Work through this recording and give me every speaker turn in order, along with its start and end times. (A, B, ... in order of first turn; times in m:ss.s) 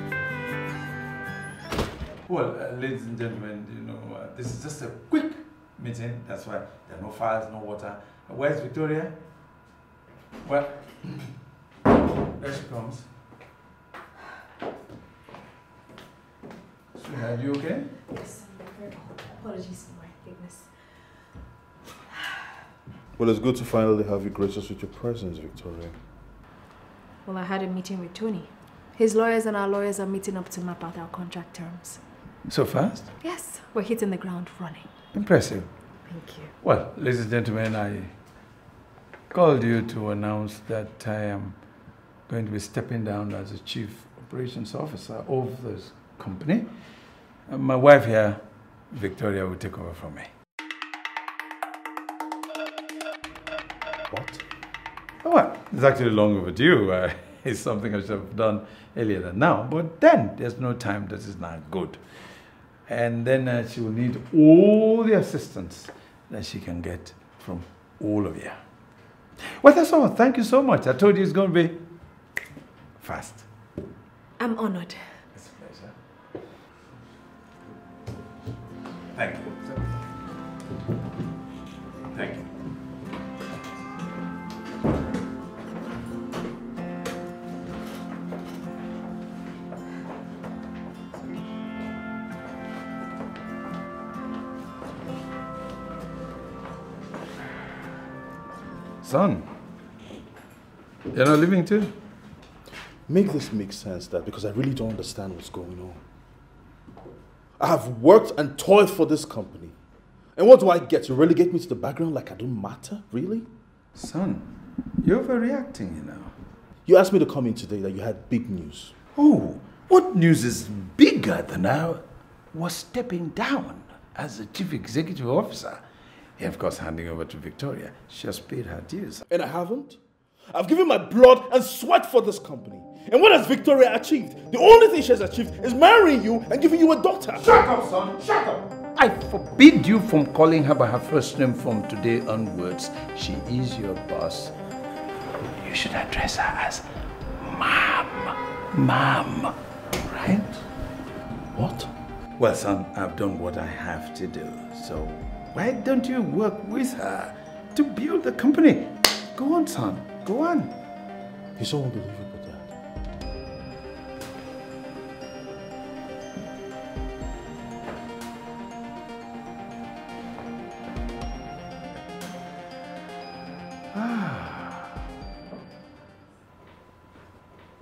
0:02.2-0:09.2 A
0:10.4-0:11.3 A
0:12.3-0:13.1 A
0:16.9-0:17.9 A
0:18.1-0:20.8 B
0:23.2-0:26.0 C
0:27.2-0:32.0 B
0:32.5-0:33.1 A
0:33.2-0:34.9 B
0:35.1-0:36.1 A
0:36.0-0:36.5 B
0:36.6-0:38.2 A
0:39.3-0:41.7 A
0:42.2-0:50.3 A
0:54.1-0:54.4 C
0:55.2-1:08.6 A
1:09.4-1:11.8 A
1:13.0-1:13.5 A
1:14.4-1:15.2 B
1:15.3-1:16.0 A
1:19.1-1:19.9 A
1:22.1-1:22.5 A
1:39.0-1:39.5 A
1:41.1-1:42.0 A
1:43.1-1:46.0 C
1:47.6-1:49.8 C
1:50.4-1:53.5 C
1:53.9-1:56.3 A
1:56.8-1:58.9 C
1:59.1-2:05.8 A
2:06.4-2:09.2 A
2:09.3-2:10.0 C
2:10.5-2:18.7 C
2:18.9-2:24.5 A
2:25.4-2:30.5 A
2:31.5-2:31.9 C
2:32.4-2:40.7 A
2:41.6-2:42.7 C
2:53.9-2:54.9 A